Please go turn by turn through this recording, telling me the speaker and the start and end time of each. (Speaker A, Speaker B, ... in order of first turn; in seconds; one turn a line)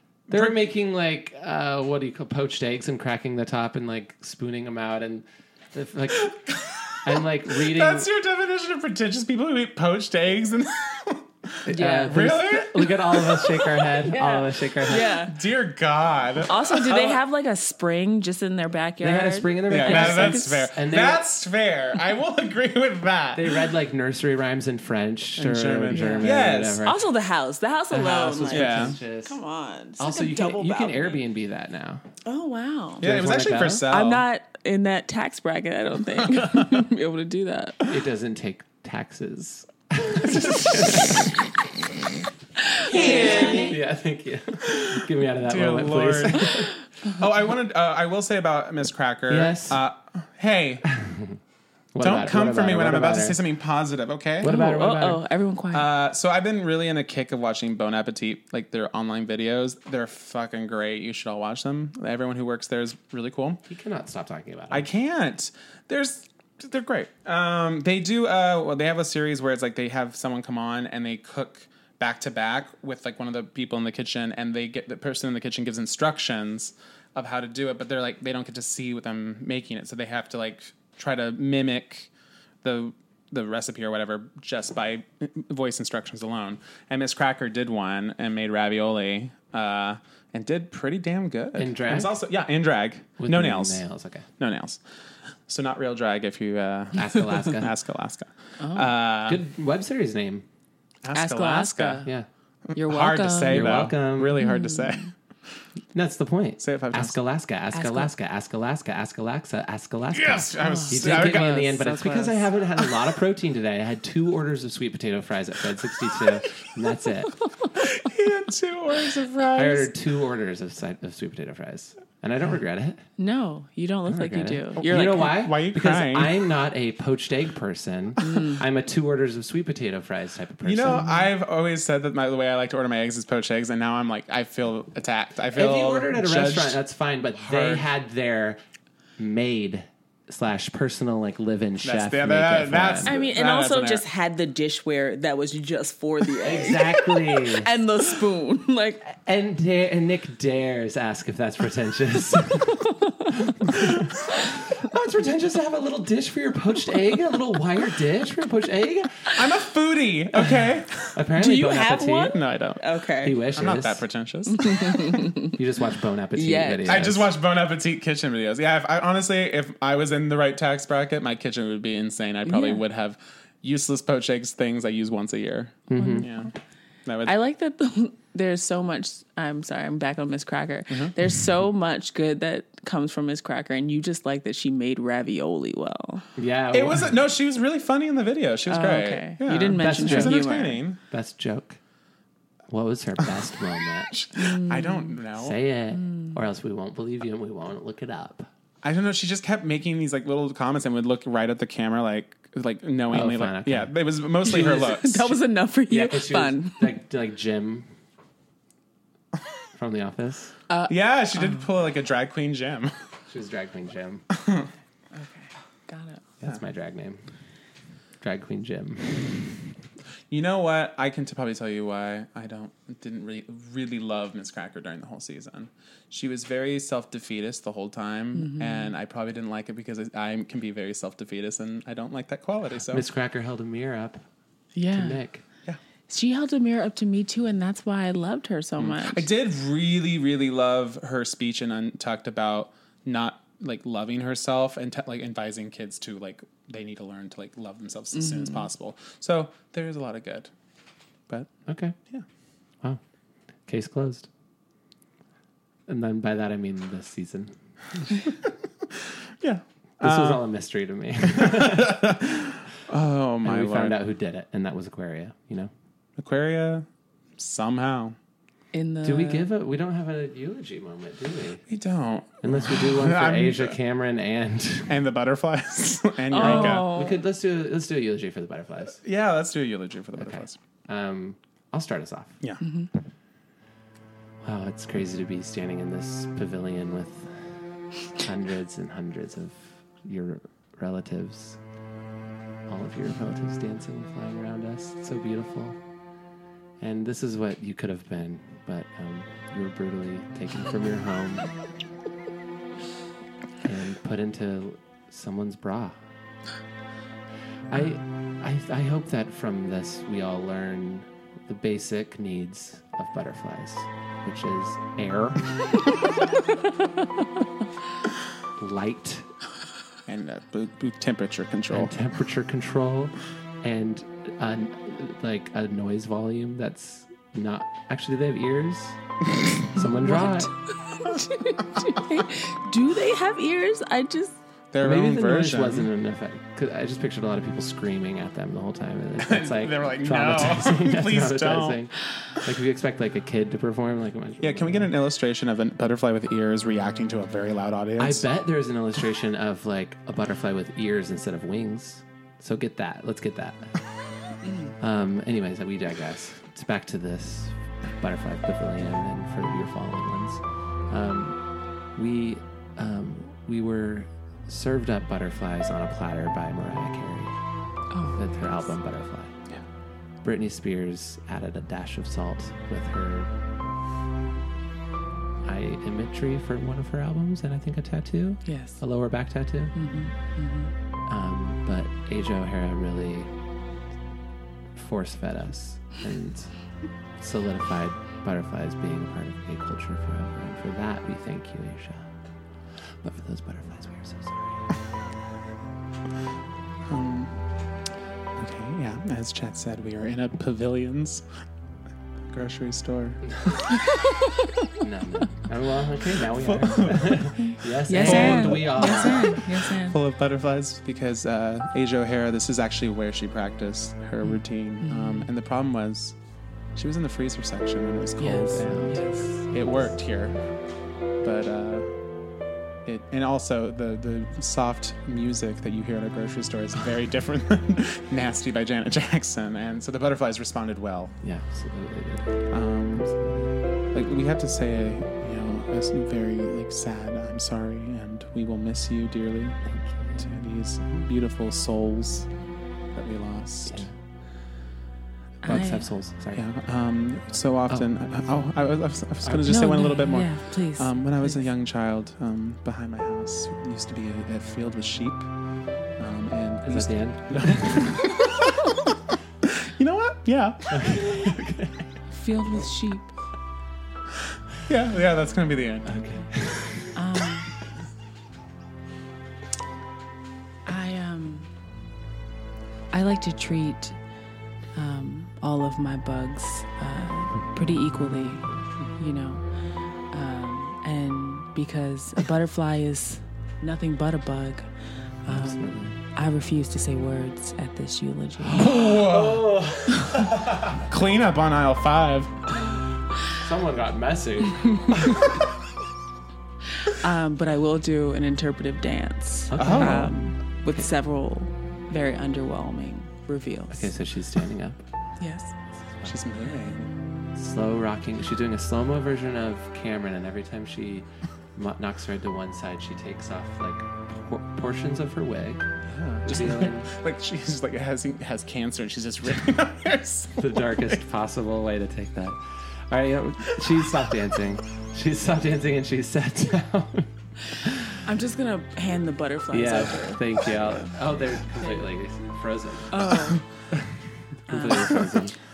Speaker A: 0.3-6.4
Speaker B: 0.3-0.6
Speaker B: 6.2-13.9
Speaker A: 7.0-8.1
Speaker A: 11.7-15.2
Speaker C: 11.7-12.2
Speaker C: 14.0-15.3
Speaker B: 15.0-17.2
Speaker C: 16.5-20.7
Speaker A: 19.0-21.2
Speaker B: 19.7-23.6
Speaker A: 23.4-27.0
Speaker B: 25.4-26.9
Speaker C: 25.9-31.2
Speaker A: 27.9-29.4
Speaker B: 28.5-29.0
Speaker A: 30.0-32.0
Speaker C: 32.2-33.1
Speaker A: 33.0-33.9
Speaker B: 33.0-34.2
Speaker C: 33.9-37.8
Speaker A: 37.9-41.3
Speaker B: 40.4-40.8
Speaker C: 42.6-43.7
Speaker A: 42.9-46.7
Speaker B: 42.9-43.7
Speaker B: 44.6-50.9
Speaker A: 49.3-49.8
Speaker A: 50.9-51.4
Speaker A: 51.9-53.4
Speaker B: 52.0-54.9
Speaker A: 54.4-55.2
Speaker C: 54.4-55.9
Speaker B: 55.7-63.6
Speaker A: 63.7-64.9
Speaker B: 64.7-82.1
Speaker B: 82.6-93.8
Speaker A: 91.6-92.2
Speaker A: 93.2-94.3
Speaker B: 94.4-94.8
Speaker B: 95.5-99.4
Speaker A: 96.9-97.7
Speaker C: 98.6-98.9
Speaker A: 99.3-100.5
Speaker B: 101.0-102.0
Speaker C: 101.1-102.1
Speaker B: 102.7-105.1
Speaker C: 102.8-105.1
Speaker A: 103.5-104.4
Speaker A: 105.9-117.3
Speaker B: 106.6-107.2
Speaker C: 107.7-108.1
Speaker B: 110.1-111.9
Speaker C: 110.6-112.5
Speaker B: 117.8-119.9
Speaker A: 119.5-123.0
Speaker C: 123.2-125.4
Speaker A: 124.1-131.1
Speaker B: 124.9-126.4
Speaker C: 128.2-128.6
Speaker B: 130.6-136.8
Speaker A: 135.5-138.6
Speaker B: 137.4-137.9
Speaker A: 139.2-143.1
Speaker B: 141.8-144.1
Speaker C: 143.1-149.1
Speaker A: 146.4-147.7
Speaker A: 149.2-159.3
Speaker B: 159.3-161.1
Speaker A: 160.3-162.4
Speaker C: 161.4-163.4
Speaker B: 162.2-162.8
Speaker A: 163.2-164.0
Speaker B: 163.5-165.0
Speaker C: 164.5-165.6
Speaker A: 165.5-167.3
Speaker C: 166.3-167.1
Speaker B: 166.9-176.5
Speaker C: 172.5-172.8
Speaker A: 175.9-176.3
Speaker C: 175.9-176.5
Speaker B: 177.1-177.3
Speaker C: 177.2-186.2
Speaker A: 186.4-187.2
Speaker B: 186.7-191.0
Speaker C: 188.7-190.8
Speaker A: 189.8-190.4
Speaker A: 191.1-191.8
Speaker A: 192.7-194.1
Speaker B: 194.1-195.6
Speaker C: 194.3-195.2
Speaker A: 195.3-198.5
Speaker C: 195.9-196.4
Speaker B: 198.8-205.4
Speaker A: 203.1-203.9
Speaker A: 204.4-204.8
Speaker C: 204.4-206.9
Speaker A: 205.9-207.9
Speaker A: 209.7-210.6
Speaker C: 210.7-211.6
Speaker B: 210.9-212.9
Speaker A: 213.3-214.3
Speaker B: 214.3-214.7
Speaker C: 215.1-216.2
Speaker A: 216.4-217.2
Speaker A: 218.2-219.6
Speaker B: 220.3-233.1
Speaker C: 228.4-228.9
Speaker A: 232.9-234.2
Speaker C: 234.8-235.2
Speaker A: 234.9-235.4
Speaker C: 236.1-239.3
Speaker B: 238.8-250.5
Speaker C: 248.1-248.7
Speaker A: 251.7-251.9
Speaker A: 253.7-254.3
Speaker A: 255.9-257.6
Speaker B: 259.4-260.4
Speaker A: 260.0-262.1
Speaker B: 261.2-264.0
Speaker A: 263.4-265.7
Speaker B: 266.2-266.9
Speaker B: 267.4-268.2
Speaker C: 268.7-269.5
Speaker A: 269.0-271.6
Speaker B: 271.7-273.8
Speaker A: 272.4-275.0
Speaker B: 274.9-276.9
Speaker C: 276.3-277.2
Speaker A: 276.4-279.0
Speaker B: 279.0-280.6
Speaker A: 280.2-282.4
Speaker C: 282.6-282.9
Speaker A: 284.4-287.6
Speaker A: 288.1-291.6
Speaker A: 292.7-295.8
Speaker A: 296.8-301.5
Speaker A: 303.6-306.0
Speaker A: 307.7-315.4
Speaker A: 318.6-319.3
Speaker B: 320.1-321.9
Speaker A: 321.7-329.0
Speaker A: 329.7-330.5
Speaker C: 329.8-334.4
Speaker B: 334.7-335.9
Speaker A: 334.8-344.9
Speaker B: 339.2-341.8
Speaker B: 344.4-348.3
Speaker A: 348.0-353.8
Speaker A: 354.8-361.4
Speaker A: 361.9-367.4
Speaker C: 367.9-368.7
Speaker A: 368.1-369.4
Speaker A: 370.2-373.3
Speaker A: 375.4-379.8
Speaker C: 378.4-378.8
Speaker C: 379.7-380.7
Speaker A: 381.1-383.3
Speaker A: 384.8-392.1
Speaker A: 392.8-394.7
Speaker B: 396.9-397.5
Speaker B: 398.4-401.3
Speaker B: 402.3-403.7
Speaker A: 404.8-409.5
Speaker B: 406.3-407.4
Speaker C: 407.4-410.0
Speaker B: 407.9-416.2
Speaker C: 414.2-415.3
Speaker B: 416.8-422.0
Speaker C: 418.2-419.5
Speaker A: 418.6-418.9
Speaker B: 422.9-431.2
Speaker A: 431.2-433.6
Speaker B: 432.5-433.1
Speaker B: 433.9-439.7
Speaker A: 439.6-440.3
Speaker B: 440.2-442.3
Speaker B: 442.9-443.9
Speaker A: 443.7-443.9
Speaker C: 445.4-445.9
Speaker A: 445.4-446.4
Speaker B: 446.3-455.3
Speaker A: 449.2-449.6
Speaker C: 449.4-451.4
Speaker B: 455.9-460.8
Speaker A: 456.6-457.9
Speaker A: 460.7-461.9
Speaker C: 462.1-463.1
Speaker B: 464.6-466.0
Speaker A: 465.9-467.0
Speaker C: 466.9-467.5
Speaker C: 470.7-471.5
Speaker C: 472.9-474.0
Speaker C: 474.8-479.5
Speaker C: 480.1-484.7
Speaker C: 485.2-488.9
Speaker A: 485.3-486.0
Speaker A: 488.5-490.8
Speaker B: 488.6-489.6
Speaker B: 490.8-492.4
Speaker A: 493.2-495.3
Speaker C: 496.8-503.9
Speaker A: 499.5-500.1
Speaker B: 499.6-500.1
Speaker A: 503.7-504.8
Speaker C: 505.2-505.6
Speaker B: 506.0-506.9
Speaker A: 507.4-515.7
Speaker B: 515.9-521.0
Speaker A: 516.2-516.9
Speaker A: 520.4-528.0
Speaker C: 528.0-530.9
Speaker A: 529.5-533.1
Speaker C: 531.6-531.9
Speaker C: 532.9-533.4
Speaker A: 533.7-535.4
Speaker C: 534.5-535.1